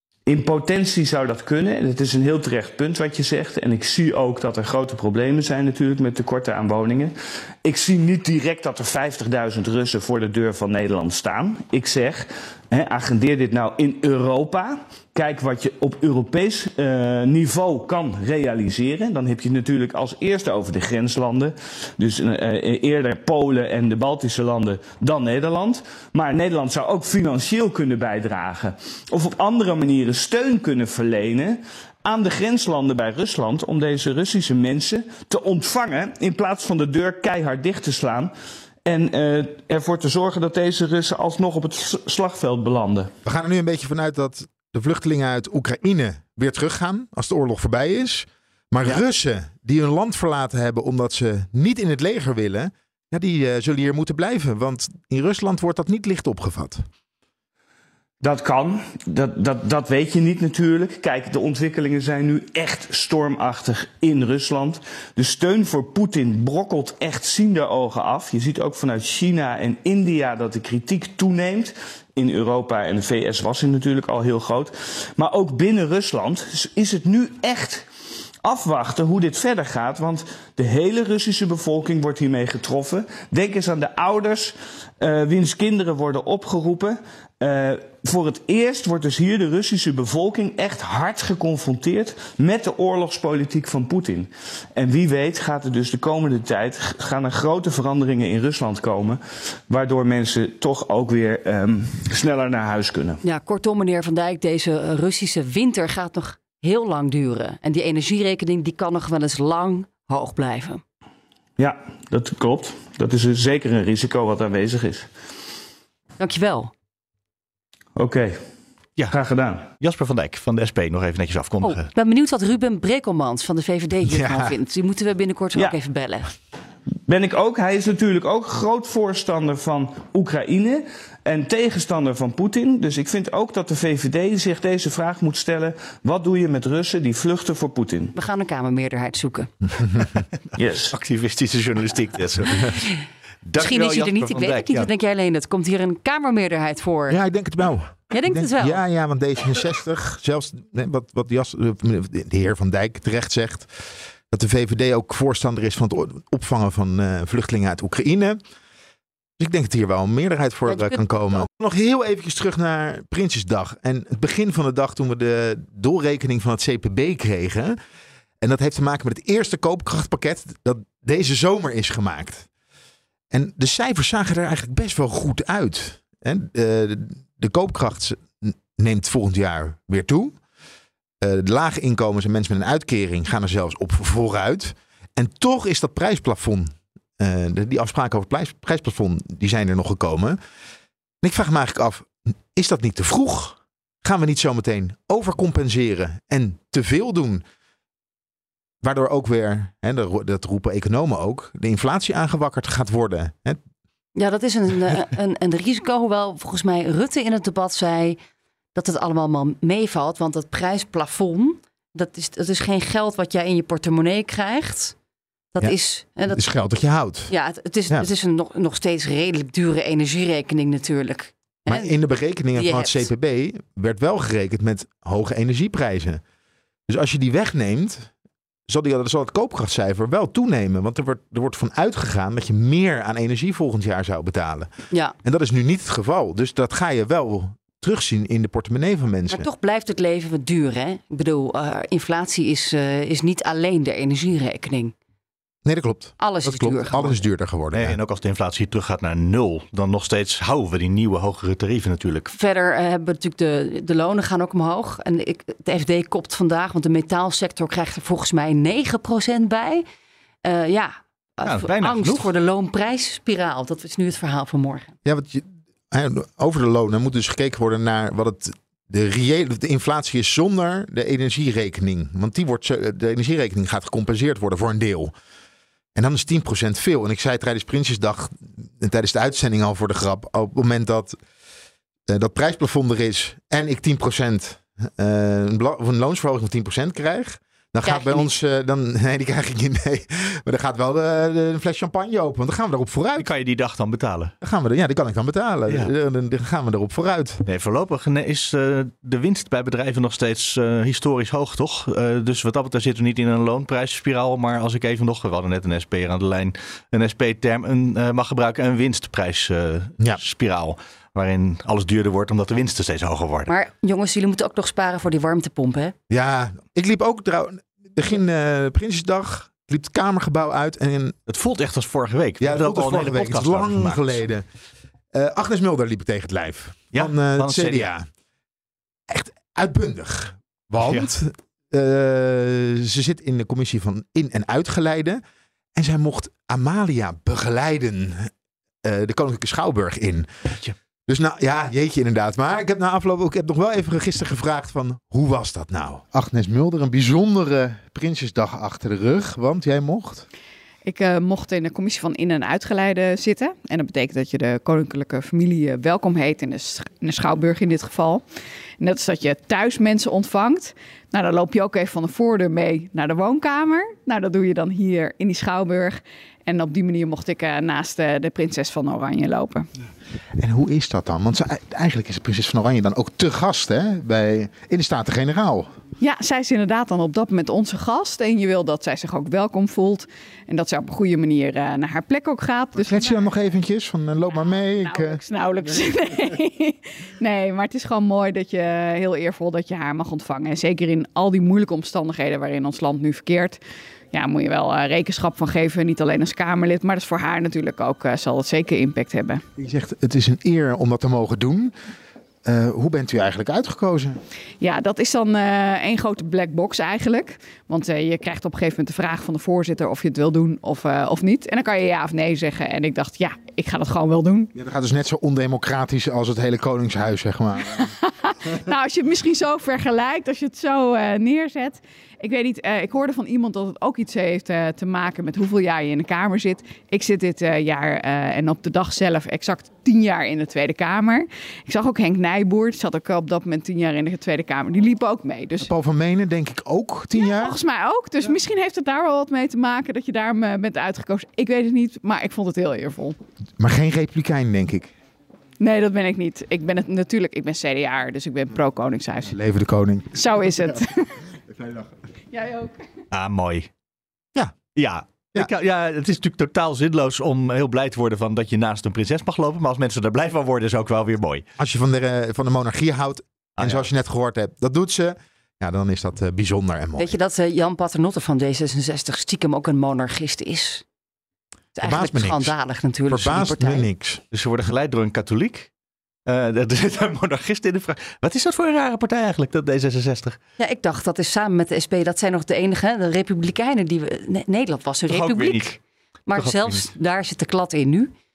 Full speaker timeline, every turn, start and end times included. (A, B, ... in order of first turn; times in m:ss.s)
0:00.3-0:38.3 A
0:38.9-0:43.1 A
0:43.2-0:56.9 B
0:58.2-1:17.9 A
1:18.4-1:43.2 A
1:43.2-1:50.8 C
1:51.6-1:55.1 A
1:56.2-1:56.7 C
1:58.0-1:58.4 A
1:59.1-1:59.7 A
1:59.8-2:01.9 D
2:01.6-2:06.3 C
2:04.1-2:04.5 B
2:07.1-2:18.1 A
2:18.2-2:19.5 C
2:20.6-2:21.0 A
2:20.9-2:22.8 D
2:23.4-2:24.9 D
2:23.6-2:27.2 C
2:27.1-2:38.4 B
2:28.1-2:28.8 C
2:39.4-2:47.8 B
2:40.7-2:41.0 C
2:48.4-2:52.5 B
2:53.3-3:00.4 B
3:01.2-3:10.4 B
3:11.2-3:17.4 B
3:18.8-3:23.6 B
3:24.2-3:28.2 C
3:28.8-3:35.0 C
3:35.5-3:36.4 C
3:36.3-3:37.3 B
3:37.3-3:42.0 C
3:41.7-3:46.2 B
3:42.6-3:43.1 C
3:46.9-3:48.1 B
3:48.7-3:54.7 B
3:55.2-3:59.5 B
3:59.3-4:04.9 C
4:05.6-4:08.0 B
4:06.2-4:07.2 C
4:07.7-4:12.3 D
4:12.3-4:19.8 C
4:20.4-4:24.9 C
4:21.5-4:22.3 D
4:25.0-4:35.1 B
4:36.0-4:41.2 B
4:42.1-4:53.3 B
4:47.8-4:48.3 C
4:53.2-4:54.3 D
4:54.4-4:57.4 B
4:57.5-5:13.5 D
5:13.5-5:16.0 C
5:16.1-5:21.2 B
5:21.3-5:24.2 D
5:22.4-5:24.4 B
5:25.1-5:28.1 B
5:26.9-5:27.9 D
5:29.1-5:35.2 B
5:35.7-5:38.3 B
5:38.8-5:40.3 B
5:41.1-5:50.3 B
5:50.9-5:58.2 E
5:58.8-6:09.7 E
6:10.4-6:15.7 B
6:16.0-6:23.0 E
6:22.8-6:25.2 B
6:24.8-6:33.6 E
6:34.1-6:39.4 E
6:39.6-6:41.7 B
6:42.4-6:44.2 B
6:44.6-6:54.5 E
6:54.6-6:57.9 B
6:57.8-7:15.7 E
7:15.6-7:17.6 B
7:17.2-7:23.2 E
7:23.6-7:24.9 B
7:25.6-7:29.3 E
7:29.3-7:30.1 B
7:30.1-7:31.2 E
7:32.3-7:32.8 E
7:33.1-7:33.7 D
7:34.8-7:41.4 D
7:41.6-7:47.1 B
7:43.6-7:43.9 D
7:47.0-7:50.8 C
7:51.8-7:53.9 C
7:51.8-7:52.5 B
7:53.1-7:54.2 B
7:54.3-7:55.7 D
7:56.3-8:00.4 D
8:00.6-8:08.1 C
8:05.1-8:05.8 D
8:06.3-8:06.9 D